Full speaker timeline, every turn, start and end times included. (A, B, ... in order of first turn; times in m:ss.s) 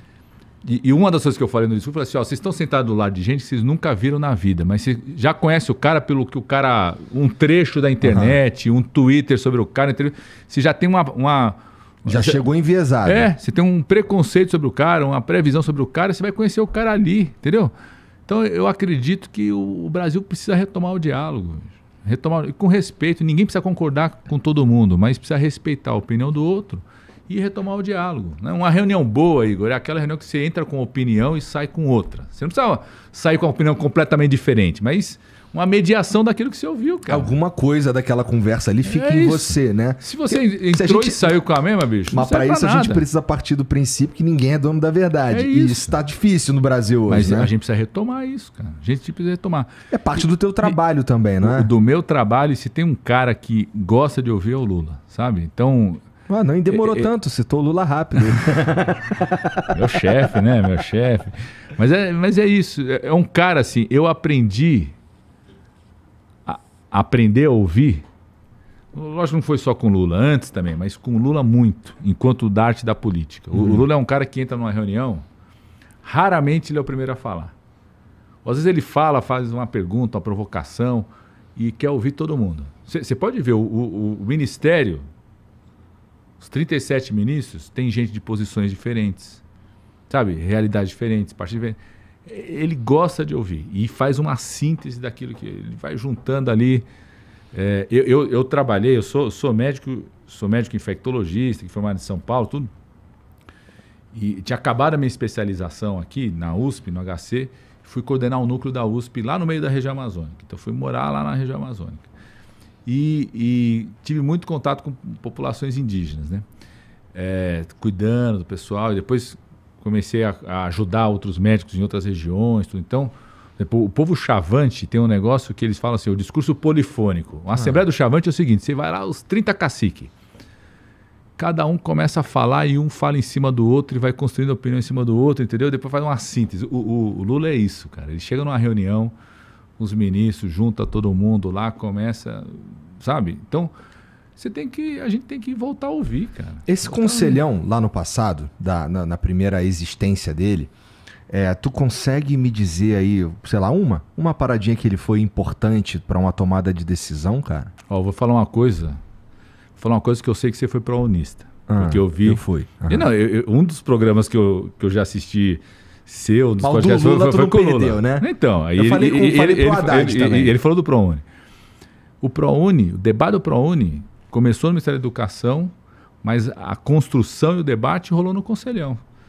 0:00.6-0:12.4 A
0:08.0-0:08.4 B
0:12.0-0:13.3 B
0:13.0-0:17.7 A
0:18.3-0:37.3 A
0:37.1-0:41.4 B
0:38.8-0:43.0 A
0:42.1-0:47.5 B
0:45.3-0:46.0 A
0:47.1-0:50.8 A
0:49.9-0:51.7 B
0:51.4-0:56.0 A
0:56.3-0:59.5 B
0:56.7-0:57.1 A
0:59.7-1:04.9 A
1:06.4-1:08.0 A
1:08.9-1:15.2 A
1:13.5-1:13.8 B
1:16.0-1:17.5 A
1:18.4-1:25.0 A
1:26.4-1:29.4 A
1:30.1-1:36.8 A
1:37.5-1:42.7 A
1:44.1-1:52.0 A
1:52.8-1:56.4 A
1:57.1-2:10.1 A
2:07.5-2:07.8 B
2:11.4-2:19.1 A
2:19.8-2:23.7 A
2:24.4-2:27.4 A
2:26.7-2:30.7 B
2:31.3-2:37.7 B
2:37.9-2:39.0 A
2:39.8-2:51.2 A
2:41.7-2:43.1 B
2:46.6-2:50.6 B
2:52.2-2:59.0 A